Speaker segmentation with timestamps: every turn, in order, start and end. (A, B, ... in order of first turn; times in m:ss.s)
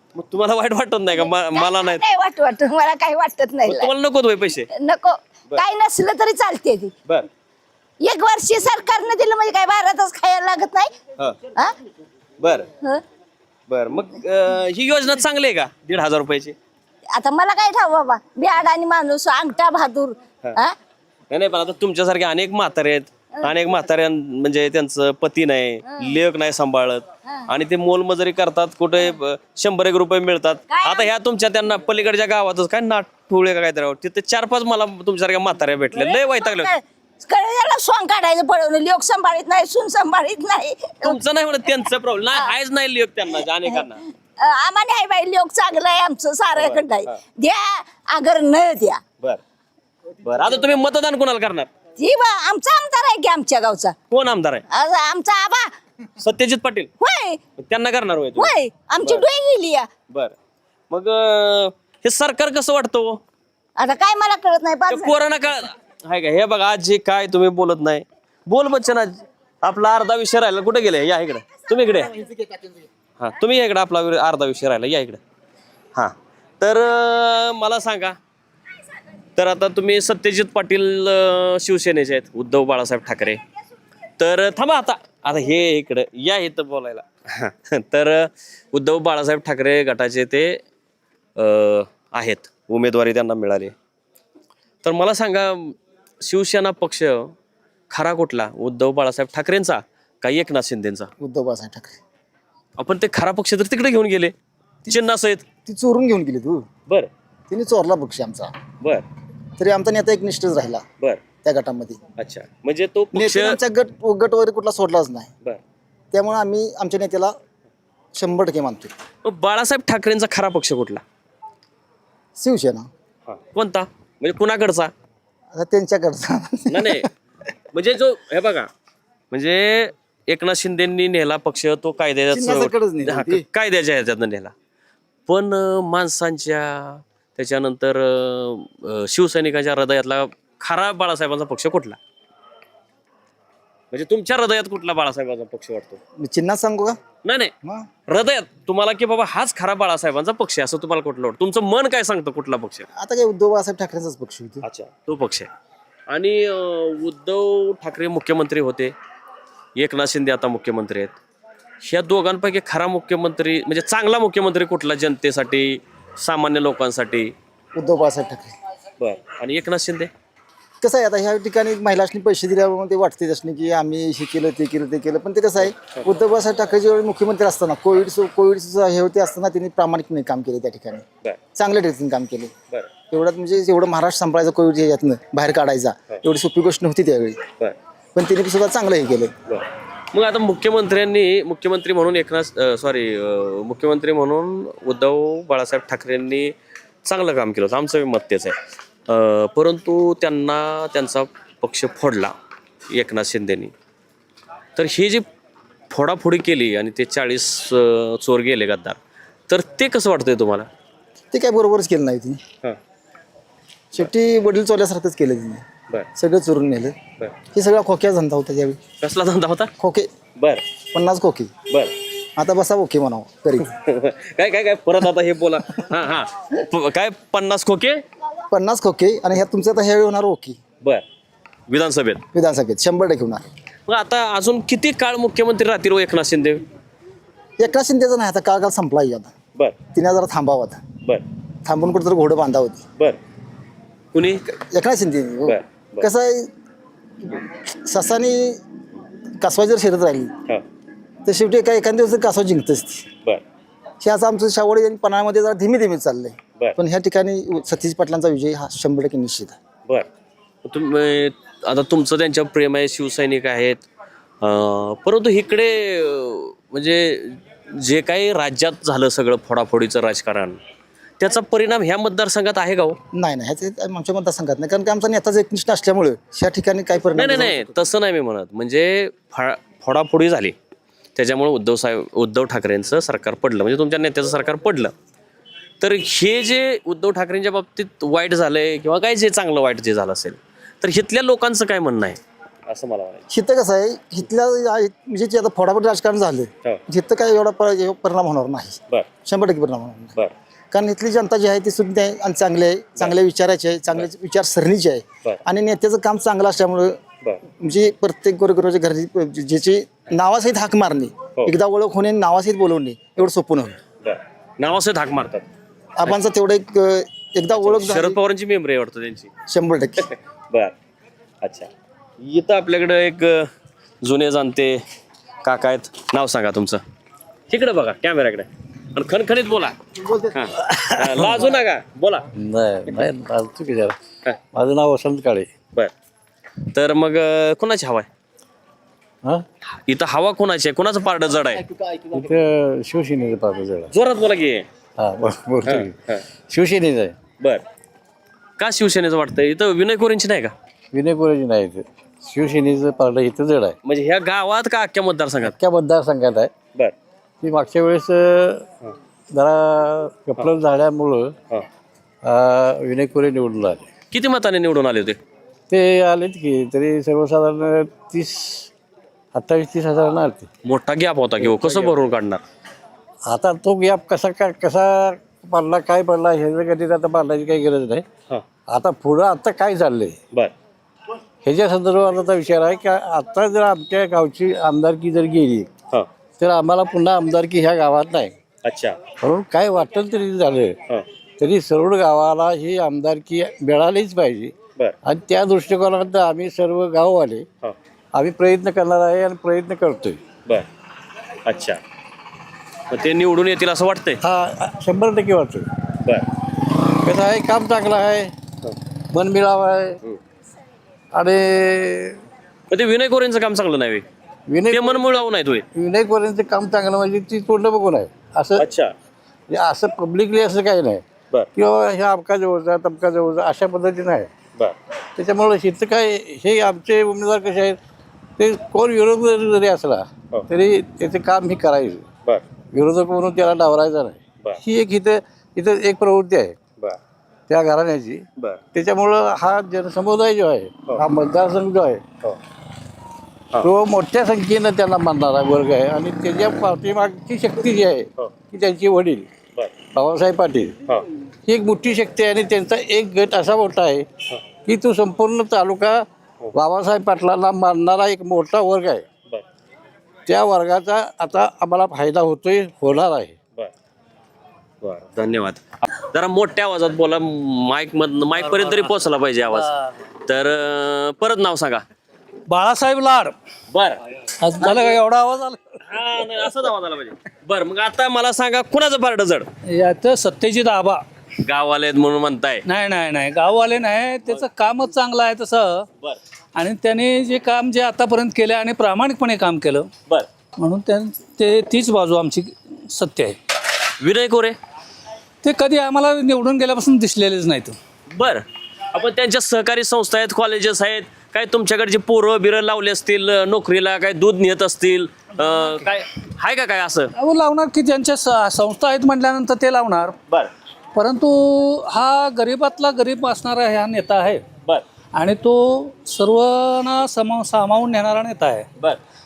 0:00.1-0:02.0 A
0:01.1-0:03.9 B
0:03.6-0:04.7 A
0:04.7-0:06.9 B
0:08.0-0:10.9 B
0:12.4-0:12.7 A
0:13.7-0:16.6 A
0:17.1-0:20.8 B
0:21.3-0:36.7 A
0:25.9-0:26.2 B
0:30.7-0:31.1 B
0:35.9-0:41.2 B
0:41.0-0:44.0 A
0:44.4-0:49.0 B
0:46.5-0:47.2 A
0:50.2-0:51.7 A
0:52.0-0:53.9 B
0:54.1-0:54.6 A
0:54.7-0:55.7 B
0:56.2-0:56.9 A
0:57.0-0:57.4 B
0:57.6-0:58.5 A
0:58.4-0:59.9 B
1:00.1-1:00.3 A
1:00.9-1:03.2 A
1:03.8-1:05.3 B
1:04.9-1:12.1 A
1:13.2-1:15.2 A
1:15.9-1:18.2 A
1:19.4-1:23.4 A
1:24.2-1:30.6 A
1:31.4-1:33.7 A
1:34.8-1:37.3 A
1:37.9-1:41.1 A
1:41.2-1:42.0 C
1:42.8-1:44.3 A
1:44.9-1:45.4 A
1:45.6-1:46.7 C
1:47.5-1:48.6 C
1:49.6-1:50.8 C
1:51.4-1:52.0 C
1:52.2-1:53.6 A
1:53.1-1:55.3 C
1:56.1-1:57.4 C
1:58.2-1:58.9 C
1:59.2-2:01.0 A
2:02.4-2:02.9 C
2:03.3-2:04.9 A
2:05.5-2:07.1 C
2:06.7-2:07.1 A
2:07.7-2:08.7 A
2:09.3-2:14.5 A
2:12.3-2:13.4 C
2:15.3-2:22.0 A
2:23.9-2:26.0 A
2:26.2-2:27.0 C
2:27.2-2:27.5 A
2:28.1-2:32.9 A
2:33.0-2:34.6 C
2:34.6-2:35.5 A
2:36.1-2:38.9 A
2:39.8-2:41.2 A
2:41.8-2:47.3 A
2:47.7-2:48.6 C
2:49.0-2:50.1 A
2:50.8-3:02.5 C
3:03.1-3:07.4 C
3:08.2-3:09.3 C
3:09.5-3:18.6 A
3:19.1-3:22.3 A
3:22.9-3:23.7 A
3:24.8-3:25.2 A
3:25.9-3:30.7 A
3:31.3-3:32.4 C
3:33.9-3:36.9 C
3:37.5-3:38.8 C
3:39.0-3:39.7 A
3:39.8-3:40.1 C
3:40.4-3:40.6 A
3:40.9-3:41.5 C
3:41.7-3:41.9 A
3:42.4-3:43.7 C
3:43.7-3:48.0 A
3:48.5-3:50.6 C
3:51.7-3:52.2 A
3:52.3-3:53.4 C
3:53.9-3:56.6 A
3:57.6-3:59.3 C
3:59.9-4:00.8 C
4:01.6-4:02.8 C
4:04.1-4:04.4 A
4:04.5-4:06.5 C
4:05.4-4:06.1 A
4:07.3-4:08.6 C
4:09.4-4:10.3 C
4:11.2-4:13.1 C
4:14.0-4:19.6 C
4:20.6-4:23.8 A
4:24.4-4:30.6 A
4:31.2-4:33.0 A
4:33.1-4:37.8 C
4:37.2-4:40.5 A
4:41.2-4:44.9 A
4:45.8-4:53.2 A
4:53.3-5:00.2 C
5:00.7-5:13.8 C
5:14.0-5:15.4 A
5:16.0-5:18.2 C
5:17.6-5:19.3 A
5:19.5-5:20.1 C
5:20.0-5:20.7 A
5:21.4-5:23.5 A
5:24.0-5:24.8 A
5:25.4-5:26.8 A
5:27.5-5:29.8 A
5:30.0-5:30.5 C
5:30.3-5:32.3 A
5:32.4-5:34.0 D
5:34.5-5:35.5 D
5:36.7-5:38.1 A
5:39.8-5:41.7 A
5:42.1-5:43.9 D
5:43.9-5:44.7 A
5:45.0-5:47.2 D
5:45.6-5:46.2 A
5:48.6-5:50.5 A
5:50.9-5:53.8 D
5:53.8-5:55.6 A
5:55.4-5:56.5 D
5:57.4-5:58.7 D
5:59.3-6:01.3 D
6:02.2-6:03.9 D
6:04.1-6:05.2 A
6:05.7-6:08.7 D
6:09.3-6:10.5 D
6:10.6-6:12.4 A
6:11.4-6:12.0 D
6:13.3-6:18.1 D
6:18.7-6:20.2 D
6:21.4-6:25.7 D
6:26.4-6:28.4 D
6:28.6-6:29.0 A
6:29.2-6:30.8 D
6:31.4-6:37.4 D
6:38.2-6:40.2 D
6:41.4-6:41.8 A
6:42.9-6:44.2 A
6:44.2-6:45.7 D
6:47.0-6:48.3 D
6:49.1-6:50.0 D
6:51.1-6:52.2 D
6:52.7-6:54.0 A
6:54.5-6:55.0 D
6:54.7-6:55.7 A
6:55.7-6:58.7 D
6:58.6-6:58.9 A
6:59.5-7:01.0 D
7:01.6-7:04.3 D
7:05.2-7:07.8 D
7:08.4-7:12.1 D
7:12.7-7:16.6 D
7:17.5-7:22.0 D
7:23.6-7:29.3 D
7:29.9-7:30.8 D
7:31.5-7:34.1 D
7:34.6-7:39.1 D
7:40.3-7:43.4 D
7:44.8-7:49.7 A
7:49.6-7:49.9 E
7:50.3-7:51.8 A
7:52.5-7:53.4 E
7:53.7-7:54.0 A
7:54.4-7:55.8 E
7:55.8-7:59.5 A
7:59.7-8:01.0 E
8:01.4-8:02.6 A
8:02.7-8:05.9 E
8:06.6-8:09.9 E
8:10.6-8:13.4 E
8:14.0-8:14.6 A
8:15.4-8:17.8 E
8:18.1-8:27.1 A
8:27.2-8:30.2 E
8:30.9-8:34.4 E
8:35.1-8:38.7 E